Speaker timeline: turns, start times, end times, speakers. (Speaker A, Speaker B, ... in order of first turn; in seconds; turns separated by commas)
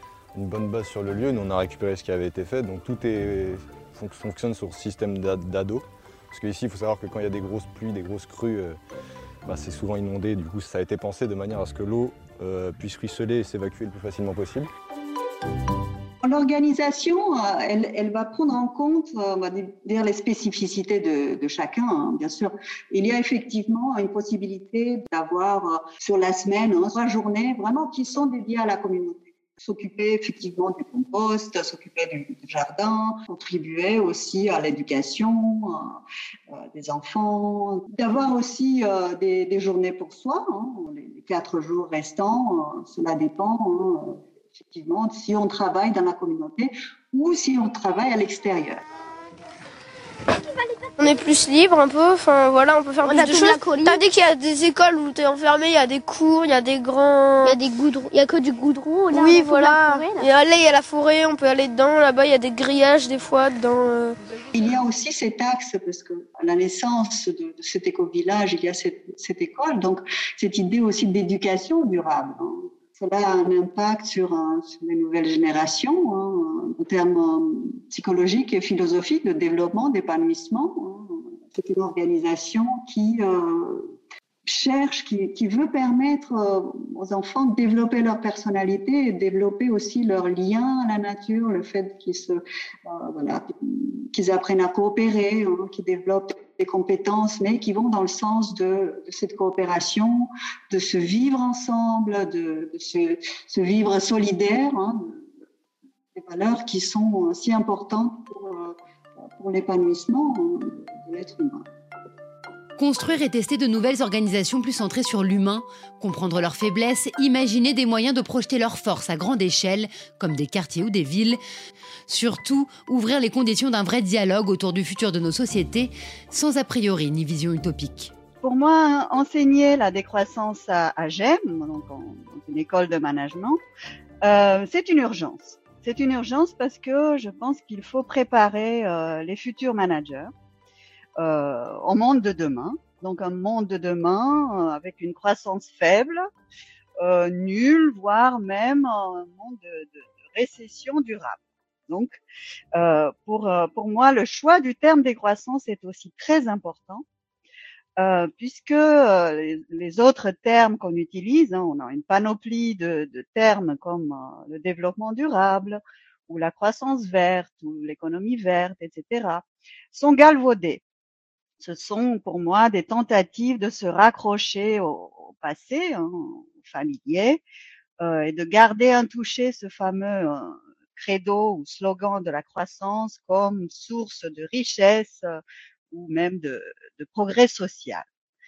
Speaker A: 0.3-8.8, Speaker A: 9.5-14.7, Speaker B: 16.2-36.0, Speaker B: 36.5-48.8, Speaker C: 50.5-50.9, Speaker D: 51.0-57.6, Speaker C: 53.0-54.0, Speaker C: 57.4-60.3, Speaker D: 59.1-64.2, Speaker B: 64.7-83.9, Speaker B: 84.5-105.2, Speaker B: 106.2-108.8, Speaker B: 109.3-111.6, Speaker E: 112.8-121.4, Speaker E: 122.1-128.1, Speaker F: 128.4-133.6, Speaker F: 134.2-140.3, Speaker F: 141.2-146.3, Speaker F: 147.0-151.4, Speaker F: 151.9-152.2, Speaker F: 152.8-157.0, Speaker F: 158.0-170.8, Speaker F: 171.6-177.4, Speaker F: 178.0-188.1